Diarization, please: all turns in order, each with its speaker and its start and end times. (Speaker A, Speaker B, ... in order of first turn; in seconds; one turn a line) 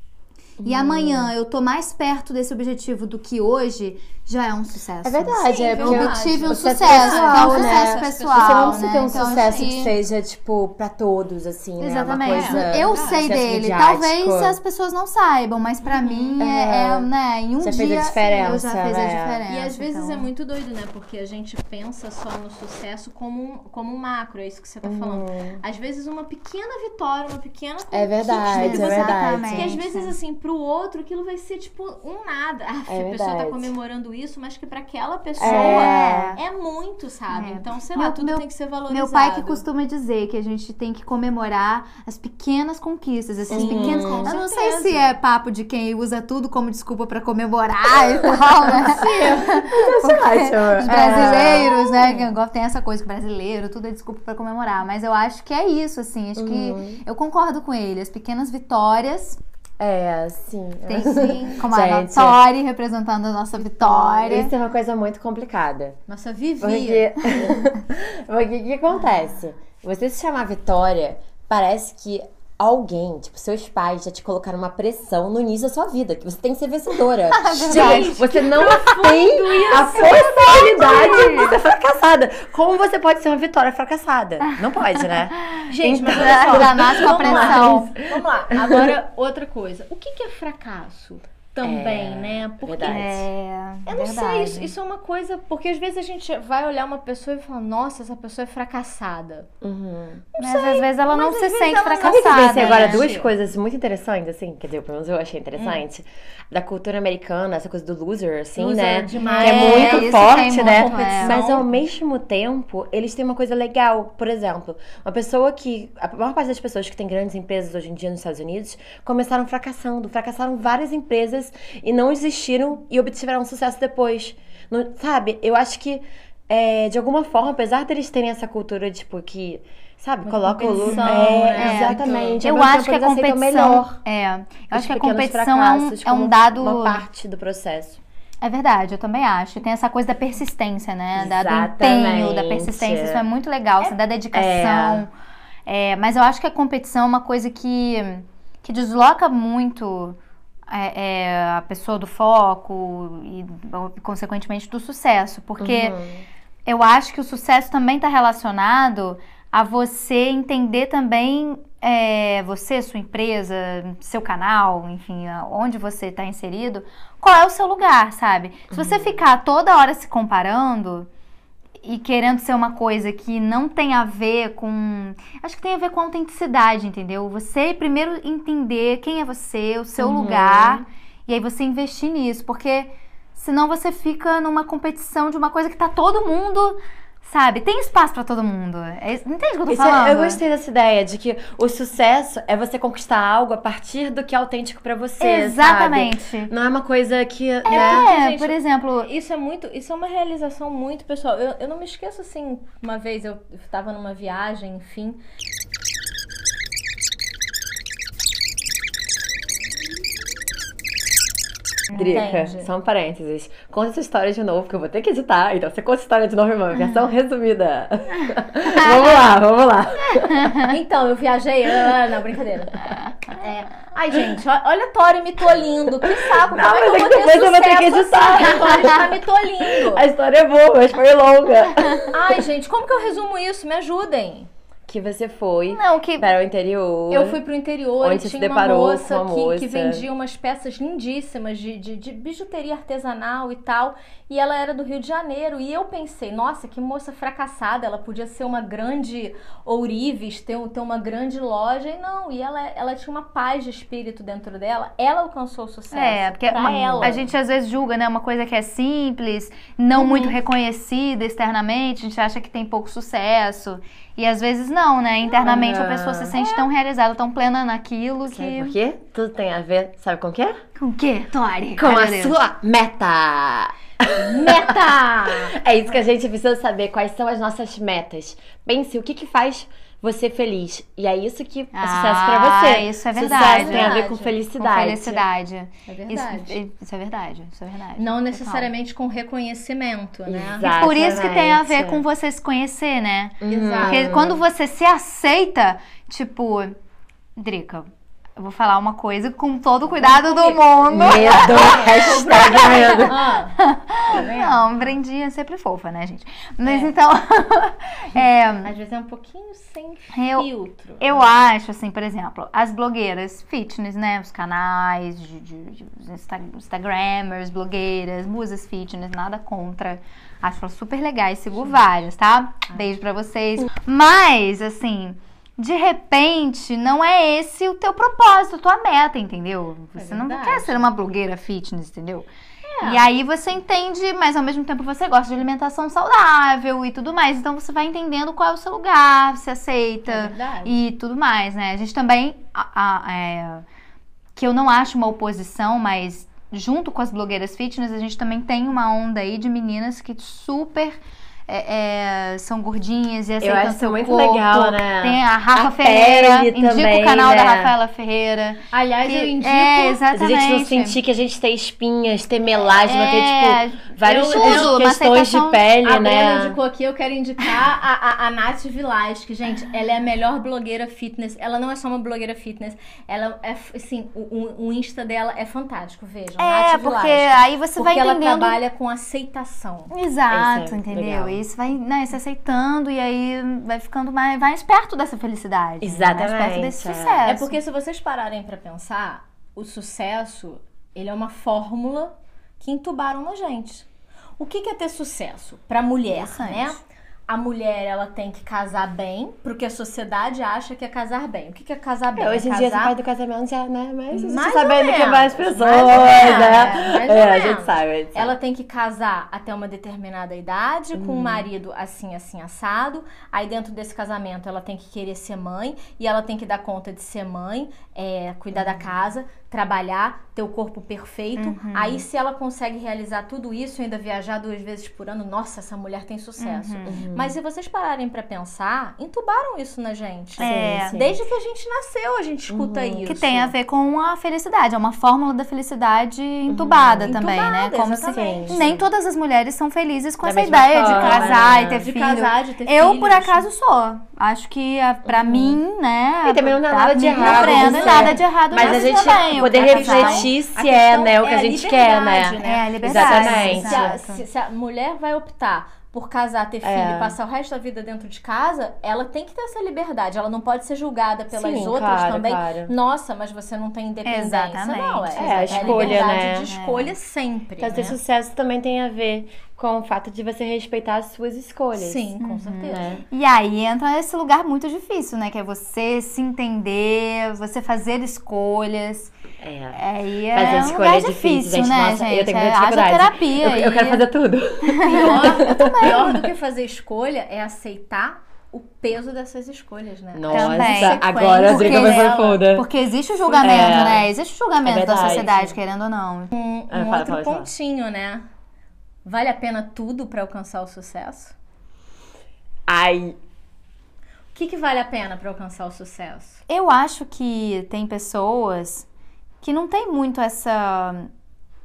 Speaker A: 0.6-1.3
Speaker B: 0.6-10.0
Speaker A: 5.0-14.6
Speaker C: 5.4-10.0
Speaker B: 11.8-20.3
Speaker C: 12.2-13.3
Speaker C: 15.8-16.4
Speaker A: 16.4-17.1
Speaker A: 17.6-19.4
Speaker C: 19.5-39.6
Speaker A: 24.8-25.6
Speaker A: 27.9-29.8
Speaker B: 28.5-30.1
Speaker A: 32.9-33.7
Speaker A: 35.4-36.3
Speaker B: 35.4-36.4
Speaker B: 37.3-59.4
Speaker C: 43.5-45.2
Speaker A: 43.5-44.3
Speaker A: 48.6-52.3
Speaker C: 48.8-49.5
Speaker A: 56.4-57.0
Speaker A: 59.8-62.4
Speaker B: 60.9-64.5
Speaker C: 61.0-61.6
Speaker A: 63.8-66.0
Speaker C: 66.1-67.1
Speaker A: 66.6-87.9
Speaker B: 77.3-78.2
Speaker C: 77.7-81.1
Speaker B: 79.9-81.6
Speaker B: 85.6-87.9
Speaker C: 85.7-93.2
Speaker A: 88.6-88.9
Speaker A: 91.6-93.3
Speaker B: 92.8-94.7
Speaker C: 93.9-99.5
Speaker A: 99.6-100.2
Speaker C: 100.3-103.3
Speaker B: 100.4-103.1
Speaker A: 102.0-134.0
Speaker C: 105.6-105.8
Speaker C: 108.6-111.8
Speaker B: 109.2-111.4
Speaker C: 130.2-132.4
Speaker B: 130.6-137.0
Speaker A: 134.7-138.0
Speaker B: 138.4-145.1
Speaker A: 141.2-143.2
Speaker A: 144.3-145.1
Speaker B: 145.7-150.2
Speaker B: 150.7-156.0
Speaker A: 155.6-156.3
Speaker B: 156.7-171.1
Speaker A: 168.7-169.2
Speaker B: 171.8-190.4
Speaker A: 180.0-180.8
Speaker A: 189.7-198.1
Speaker B: 195.2-196.5
Speaker C: 197.7-205.2
Speaker B: 197.7-199.1
Speaker B: 211.9-212.2
Speaker A: 211.9-220.6
Speaker C: 212.0-212.7
Speaker B: 218.7-219.3
Speaker B: 220.3-220.7
Speaker C: 220.7-230.1
Speaker A: 226.1-229.2
Speaker A: 229.8-232.4
Speaker C: 232.1-234.5
Speaker A: 234.9-237.4
Speaker B: 235.7-236.3
Speaker C: 237.1-257.2
Speaker A: 238.0-240.1
Speaker B: 255.9-268.8
Speaker A: 256.9-257.2
Speaker A: 259.9-260.4
Speaker A: 265.3-266.4
Speaker A: 268.3-270.6
Speaker B: 270.8-272.4
Speaker A: 271.8-285.2
Speaker C: 274.2-275.6
Speaker B: 281.7-288.7
Speaker C: 283.2-284.4
Speaker C: 285.9-286.6
Speaker C: 288.0-291.3
Speaker A: 290.3-292.0
Speaker B: 290.6-296.8
Speaker A: 293.4-294.4
Speaker C: 293.5-294.1
Speaker B: 297.4-308.7
Speaker C: 300.0-304.9
Speaker A: 300.9-303.2
Speaker C: 306.6-306.9
Speaker C: 308.6-311.3
Speaker B: 310.1-310.5
Speaker B: 311.0-332.3
Speaker C: 330.0-330.9
Speaker C: 332.7-333.1
Speaker B: 332.8-343.6
Speaker C: 340.1-340.8
Speaker B: 344.4-361.0
Speaker A: 353.4-357.7
Speaker C: 358.7-360.0
Speaker A: 360.1-366.6
Speaker B: 362.8-365.6
Speaker C: 364.0-364.8
Speaker C: 365.8-379.9
Speaker B: 376.4-378.6
Speaker B: 379.9-387.6
Speaker A: 380.3-381.4
Speaker A: 385.8-387.3
Speaker C: 387.3-393.9
Speaker C: 394.4-403.0
Speaker B: 396.1-396.8
Speaker A: 402.2-408.4
Speaker C: 404.1-433.5
Speaker B: 406.4-406.7
Speaker A: 410.9-411.5
Speaker A: 418.5-418.8
Speaker B: 421.4-422.0
Speaker B: 426.4-427.0
Speaker A: 426.9-427.4
Speaker B: 430.4-431.0
Speaker A: 430.4-431.2
Speaker A: 432.5-433.0
Speaker B: 433.1-450.3
Speaker A: 436.5-437.2
Speaker C: 437.0-438.8
Speaker A: 438.1-438.8
Speaker A: 440.2-441.9
Speaker C: 440.8-443.5
Speaker A: 445.1-445.6
Speaker A: 446.2-454.0
Speaker C: 447.1-468.0
Speaker B: 452.4-454.2
Speaker A: 456.6-457.2
Speaker A: 461.3-462.7
Speaker B: 464.0-466.9
Speaker A: 465.2-466.5
Speaker A: 467.6-472.0
Speaker C: 471.8-473.0
Speaker B: 472.2-479.1
Speaker A: 472.7-473.0
Speaker A: 479.4-486.2
Speaker B: 479.7-484.1
Speaker B: 484.6-486.1
Speaker C: 484.9-492.5
Speaker A: 490.1-492.6
Speaker B: 490.3-496.3
Speaker C: 493.2-494.0
Speaker A: 493.4-494.1
Speaker A: 494.6-495.6
Speaker C: 496.3-498.2
Speaker A: 496.7-497.5
Speaker C: 499.1-501.4
Speaker A: 502.7-503.2
Speaker C: 504.3-506.4
Speaker B: 506.5-508.9
Speaker B: 509.4-511.1